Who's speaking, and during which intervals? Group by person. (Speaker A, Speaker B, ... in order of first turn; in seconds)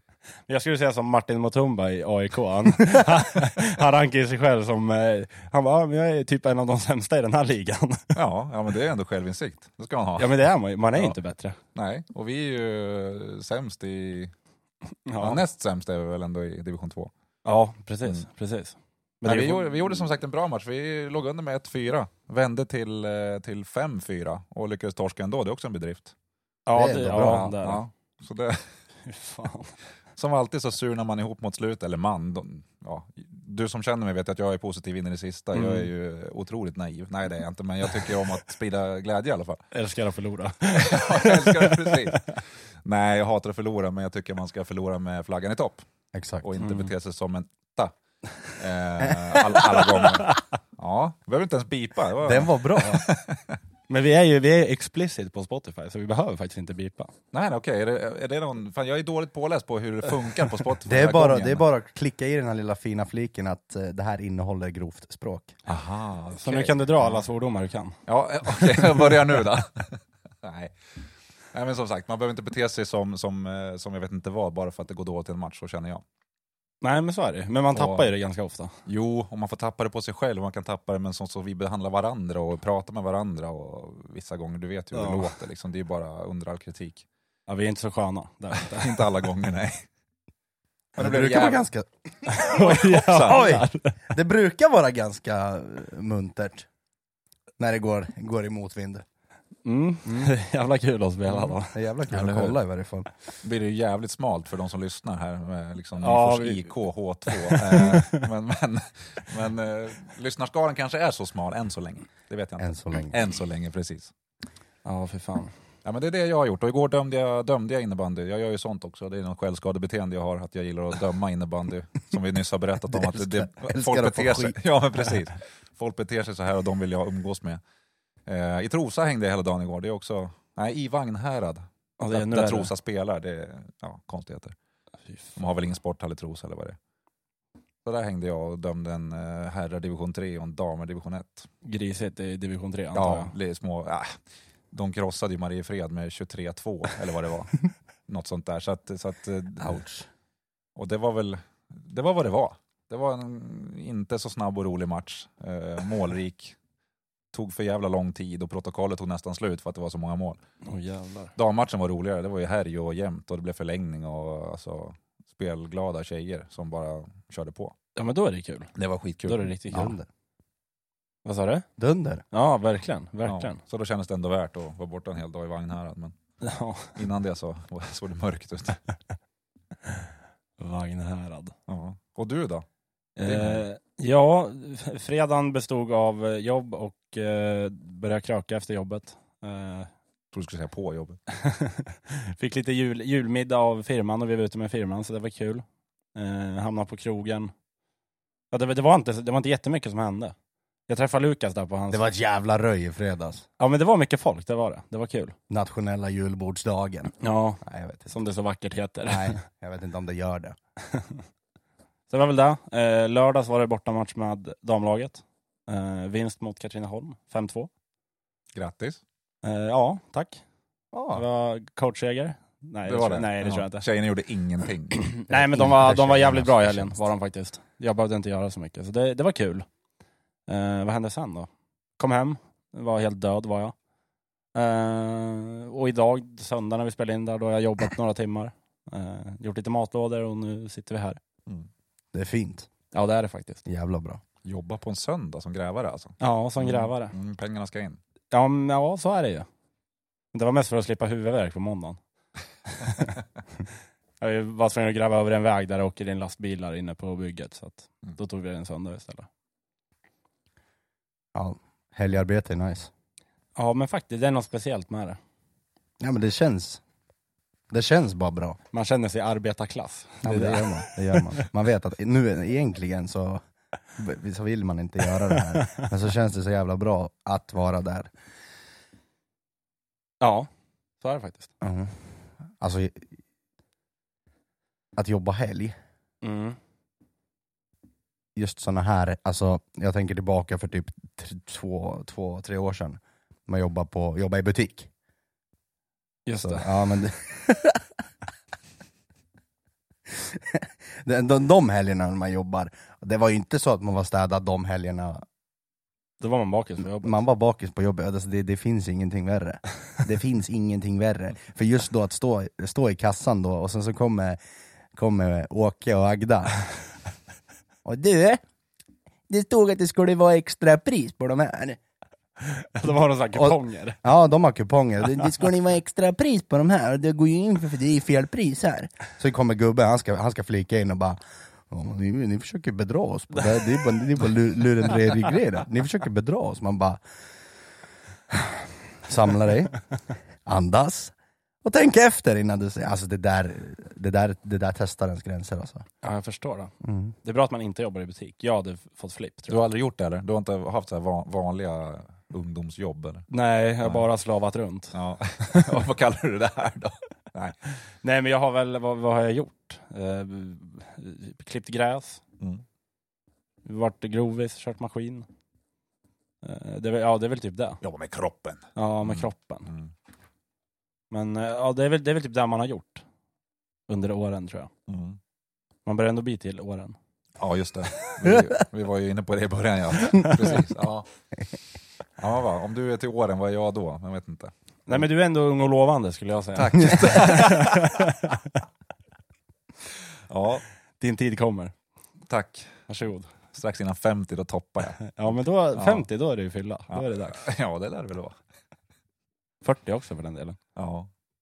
Speaker A: 0.5-8.2, 10.2-11.6, 15.1-15.4, 17.4-20.0, 26.6-27.8, 29.0-29.7, 35.5-35.9, 39.7-42.3, 46.6-46.9, 49.5-50.4, 53.9-57.1, 66.4-67.9, 76.8-78.7, 84.9-85.2, 87.5-89.0, 92.2-93.9, 99.6-101.7, 106.0-106.7, 107.3-108.2, 114.8-115.5, 132.0-132.7, 141.6-143.3, 160.6-161.3, 167.9-168.7, 169.2-170.0, 171.2-171.7, 172.3-173.6, 176.4-176.9, 180.6-181.5, 183.2-189.9, 191.3-197.5, 198.5-200.3, 200.9-202.0, 203.6-205.3, 207.2-209.4, 210.9-211.2, 212.1-217.7, 219.4-220.4, 221.1-223.8, 224.9-229.7, 230.5-233.7, 234.5-241.2, 242.9-243.6, 246.2-247.1, 248.3-249.5, 250.3-252.0, 252.7-253.1, 254.2-259.3, 263.6-265.2, 268.7-271.3, 280.2-280.5, 281.0-281.5, 286.2-286.6, 296.2-296.7, 306.2-307.2, 322.4-324.0, 346.0-346.7, 347.2-349.6, 353.3-354.9, 355.5-355.7, 358.0-362.2, 363.6-365.3, 366.4-367.8, 368.8-369.7, 371.1-373.0, 373.9-374.7, 375.9-376.9, 384.9-388.5, 391.0-391.7, 392.9-393.3, 395.0-397.4, 399.6-400.6
Speaker B: 8.1-10.3, 11.7-14.3, 15.2-17.1, 19.2-26.1, 27.1-28.6, 30.2-39.6, 40.7-45.8, 46.4-47.9, 48.5-53.6, 57.3-61.6, 65.7-67.2, 68.1-70.8, 71.5-76.0, 77.7-78.1, 78.8-87.0, 88.6-89.8, 91.0-91.6, 92.4-93.5, 102.1-102.6, 103.4-114.1, 115.8-127.6, 128.2-134.5, 135.3-136.8, 137.8-141.5, 142.9-144.1, 144.7-149.8, 150.8-156.5, 157.3-160.4, 161.3-167.7, 168.8-169.5, 173.3-176.1, 176.9-178.8, 181.7-182.6, 183.2-183.6, 190.3-191.2, 218.5-219.0, 222.8-225.1, 244.4-248.0, 349.5-353.3, 354.9-357.6, 367.8-369.9, 374.9-375.2, 377.4-381.1, 382.2-385.0, 386.6-388.1, 390.3-390.6, 392.3-392.8, 393.5-395.2, 395.7-396.0, 396.9-398.4, 400.8-401.1
Speaker C: 26.7-27.5, 46.1-46.5, 52.2-53.0, 60.9-65.5, 91.0-92.4, 93.2-96.7, 97.6-99.0, 100.0-100.3, 101.3-103.1, 112.6-113.2, 122.9-124.5, 149.6-150.1, 169.7-170.1, 171.8-172.2, 201.9-203.4, 205.5-208.1, 209.1-210.5, 220.9-221.2, 225.3-227.0, 242.1-242.7, 243.7-244.2, 261.3-262.9, 266.0-266.8, 267.7-268.6, 270.2-273.4, 274.0-278.1, 281.6-283.1, 284.9-285.7, 288.3-294.9, 296.4-297.8, 300.1-305.2, 307.0-314.4, 314.9-316.6, 317.8-318.4, 319.3-321.8, 323.4-337.0, 338.3-339.8, 340.4-345.9, 346.8-347.1